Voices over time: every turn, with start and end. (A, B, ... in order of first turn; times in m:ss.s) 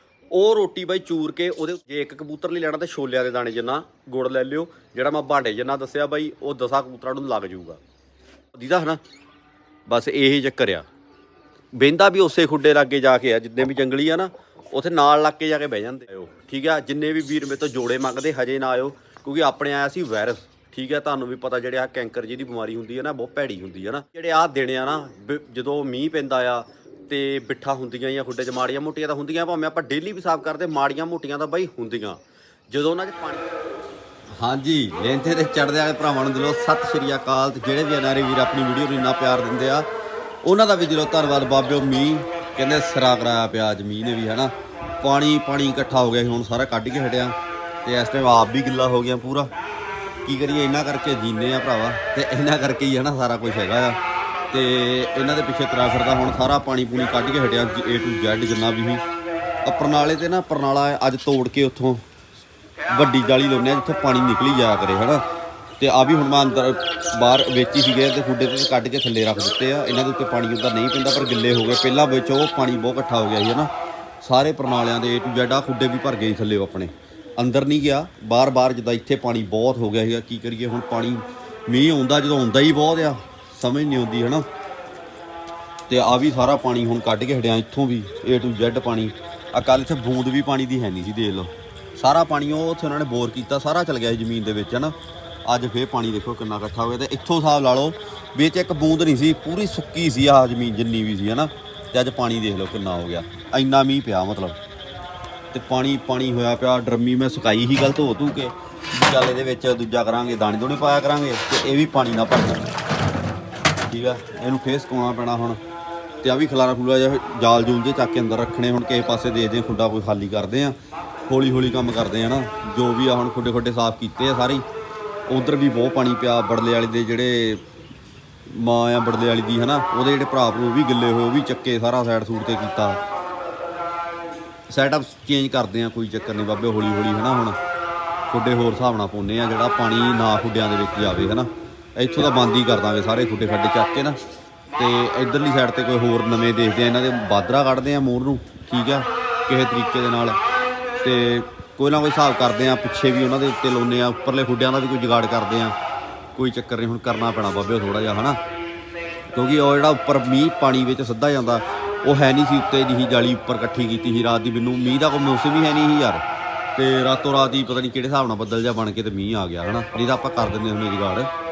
0:00.3-0:07.8 A
0:08.5-0:09.0 A
0:09.9-0:10.8 A
0:11.7-0:33.4 A
0:34.4-0:39.9 A
0:40.4-0:49.5 A
0:50.2-0:54.0 A
0:54.5-0:59.0 A
0:59.6-1:02.0 A
1:02.9-1:05.2 A
1:05.8-1:24.4 A
1:25.9-1:44.6 A
1:45.5-1:52.7 A
1:53.9-1:55.6 A
1:56.2-2:04.6 A
2:05.3-2:07.6 A
2:08.5-2:13.0 A
2:14.7-2:17.6 A
2:18.3-2:24.2 A
2:24.8-2:30.4 A
2:31.0-2:35.8 A
2:36.4-2:38.4 A
2:39.3-2:46.2 A
2:46.8-2:51.3 A